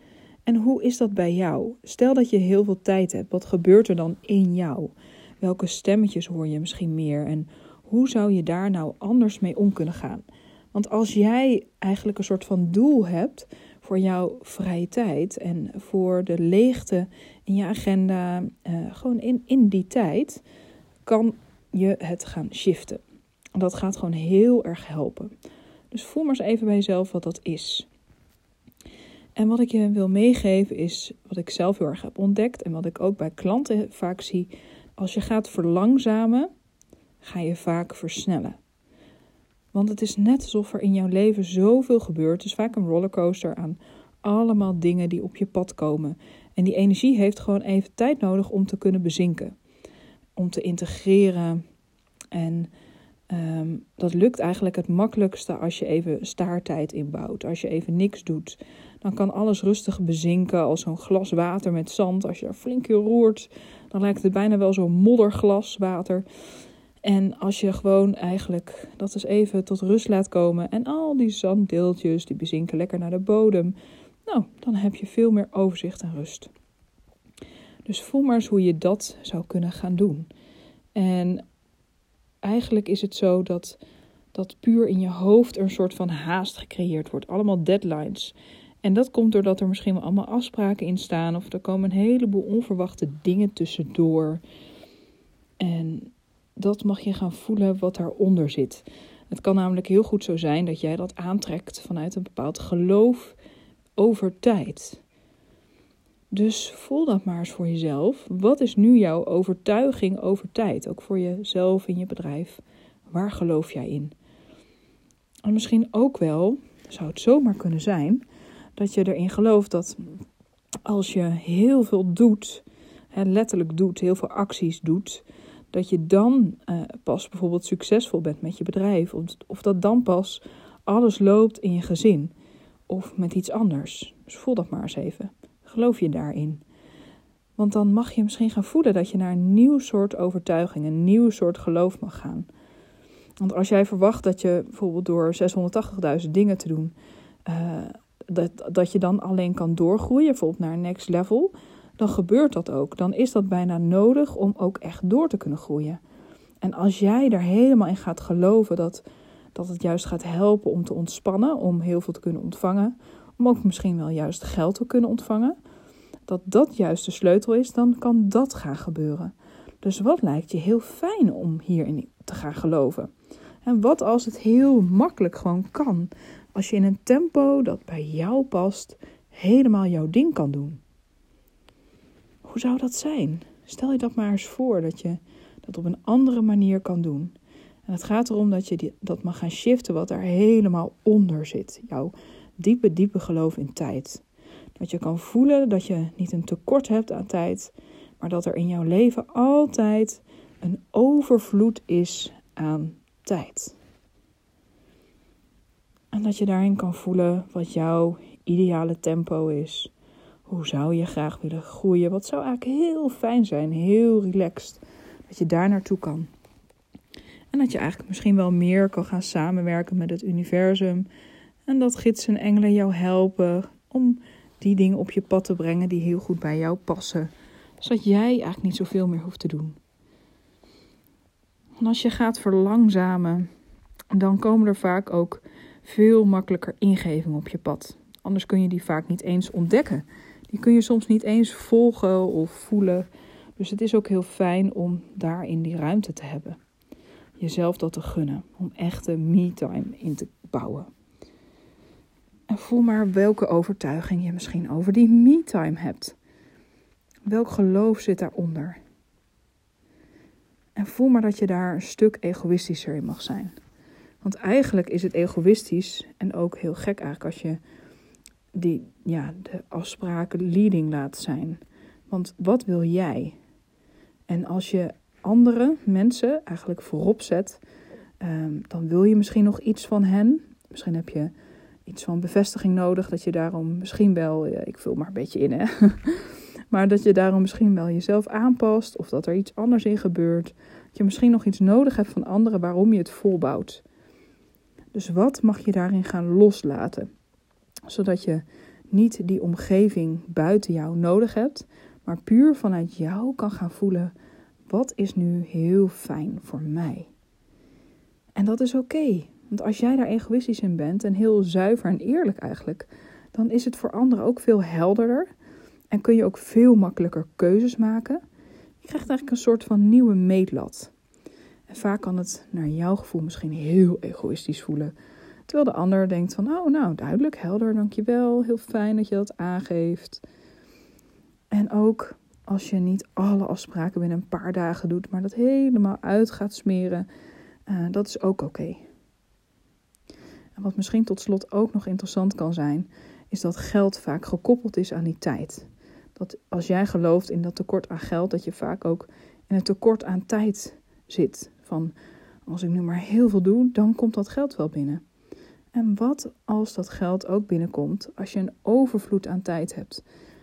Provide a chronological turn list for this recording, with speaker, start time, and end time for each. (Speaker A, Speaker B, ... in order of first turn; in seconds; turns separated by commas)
Speaker A: 0.5-20.4, Speaker A: 21.1-23.0, Speaker A: 23.6-25.3, Speaker A: 25.9-27.9, Speaker A: 29.4-36.5, Speaker A: 37.2-38.6, Speaker A: 39.7-49.5, Speaker A: 50.4-51.6, Speaker A: 52.3-52.7, Speaker A: 53.3-66.2, Speaker A: 67.0-76.5, Speaker A: 77.8-80.3, Speaker A: 81.0-81.4, Speaker A: 82.4-83.8, Speaker A: 84.3-94.4, Speaker A: 95.6-103.4, Speaker A: 104.0-105.0, Speaker A: 106.3-114.1, Speaker A: 115.5-118.2, Speaker A: 118.8-120.0, Speaker A: 120.8-132.3, Speaker A: 132.9-136.6, Speaker A: 137.6-142.5, Speaker A: 143.4-146.9, Speaker A: 147.5-156.0, Speaker A: 156.6-159.0, Speaker A: 159.6-165.6, Speaker A: 166.3-173.1, Speaker A: 173.6-180.8, Speaker A: 182.4-187.3, Speaker A: 187.9-194.2, Speaker A: 194.8-203.8, Speaker A: 206.1-209.9, Speaker A: 210.5-216.3, Speaker A: 217.5-221.1, Speaker A: 221.7-229.8, Speaker A: 231.8-233.5, Speaker A: 234.1-246.6, Speaker A: 247.4-250.9, Speaker A: 252.5-256.2, Speaker A: 257.3-258.8, Speaker A: 260.8-263.5, Speaker A: 264.2-267.6, Speaker A: 268.5-273.4, Speaker A: 274.3-277.6, Speaker A: 278.2-281.3, Speaker A: 281.9-293.8, Speaker A: 294.9-297.1, Speaker A: 297.9-304.1, Speaker A: 304.7-307.1, Speaker A: 308.4-315.3, Speaker A: 315.9-318.2, Speaker A: 318.8-320.9, Speaker A: 321.7-324.9, Speaker A: 325.5-330.2, Speaker A: 331.5-337.1, Speaker A: 337.7-338.9, Speaker A: 340.6-351.9, Speaker A: 352.5-355.0, Speaker A: 355.7-360.0